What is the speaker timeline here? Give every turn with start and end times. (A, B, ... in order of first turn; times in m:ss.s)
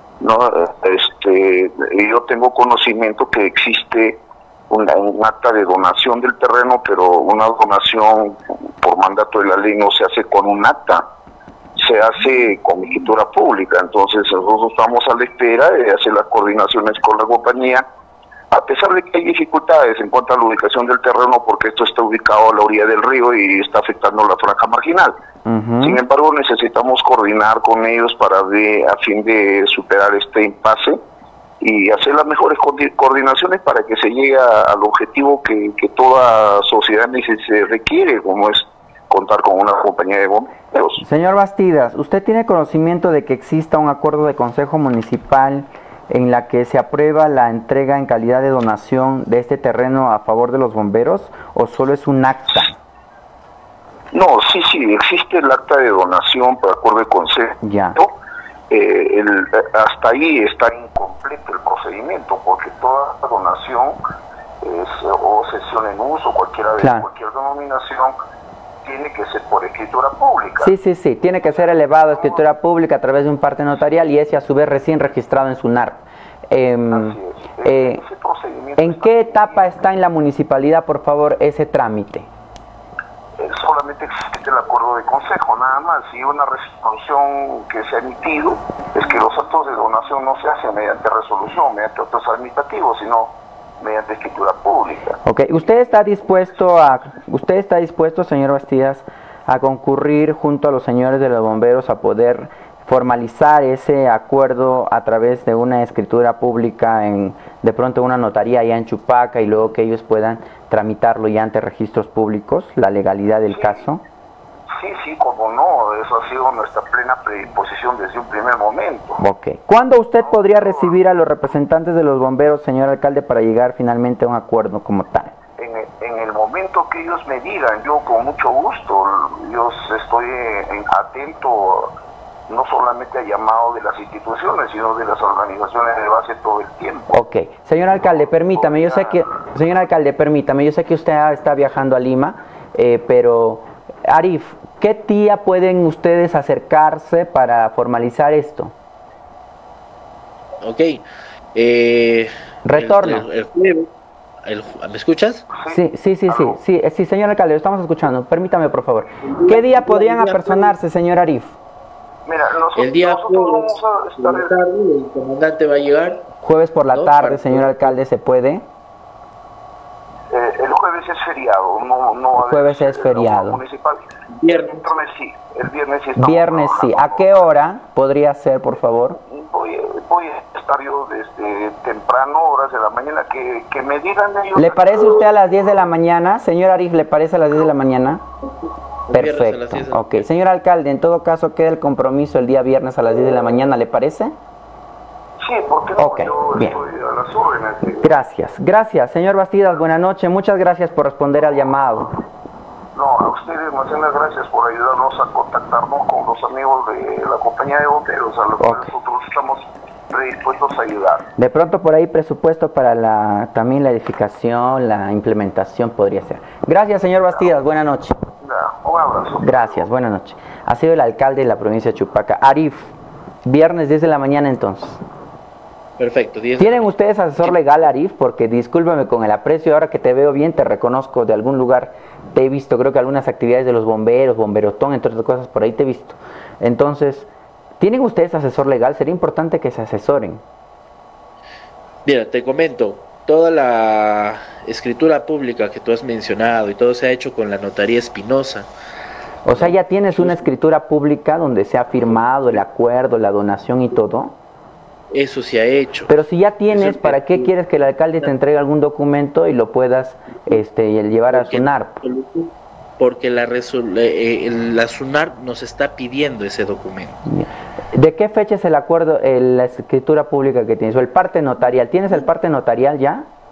0:00.2-0:11.0 A
0:11.8-0:17.8 A
0:18.5-0:25.1 A
0:25.4-0:26.0 B
0:25.8-0:31.0 A
0:31.6-0:41.0 A
0:41.0-0:52.8 B
0:54.1-0:58.1 A
0:57.6-0:58.0 B
0:58.7-1:04.0 A
1:04.6-1:08.2 A
1:06.8-1:07.1 B
1:08.8-1:10.7 A
1:10.6-1:18.0 B
1:16.9-1:19.7 A
1:18.8-1:22.3 B
1:23.4-1:35.2 A
1:35.2-1:54.0 B
1:53.5-1:53.8 A
1:54.8-1:59.2 A
1:59.2-2:05.3 B
2:05.6-2:11.9 A
2:12.5-2:17.2 A
2:17.1-2:28.7 B
2:18.5-2:19.2 A
2:30.6-2:31.0 C
2:31.5-2:33.9 C
2:32.6-2:33.3 B
2:34.4-2:35.5 C
2:35.5-2:36.6 A
2:35.7-2:41.6 B
2:39.2-2:40.8 C
2:42.2-2:44.5 A
2:42.8-2:46.3 C
2:46.4-2:48.6 B
2:46.9-2:48.0 C
2:50.3-2:54.0 A
2:52.4-2:53.6 B
2:54.3-2:54.8 C
2:54.7-2:57.5 A
2:56.2-2:59.2 B
2:59.2-3:05.3 A
3:04.5-3:08.2 B
3:09.1-3:10.2 C
3:09.1-3:14.3 B
3:15.4-3:18.1 A
3:16.0-3:16.8 B
3:18.0-3:22.1 B
3:22.9-3:31.2 A
3:28.6-3:28.9 B
3:31.4-3:38.2 B
3:38.4-3:39.9 A
3:39.4-3:42.9 B
3:43.4-3:45.0 B
3:46.0-3:46.9 C
3:46.6-3:57.3 B
3:57.8-4:00.4 B
4:02.0-4:08.7 C
4:09.4-4:14.3 B
4:09.5-4:10.5 C
4:12.0-4:12.3 C
4:15.1-4:16.1 C
4:16.1-4:22.0 B
4:16.7-4:17.5 C
4:21.3-4:27.2 C
4:27.2-4:33.2 B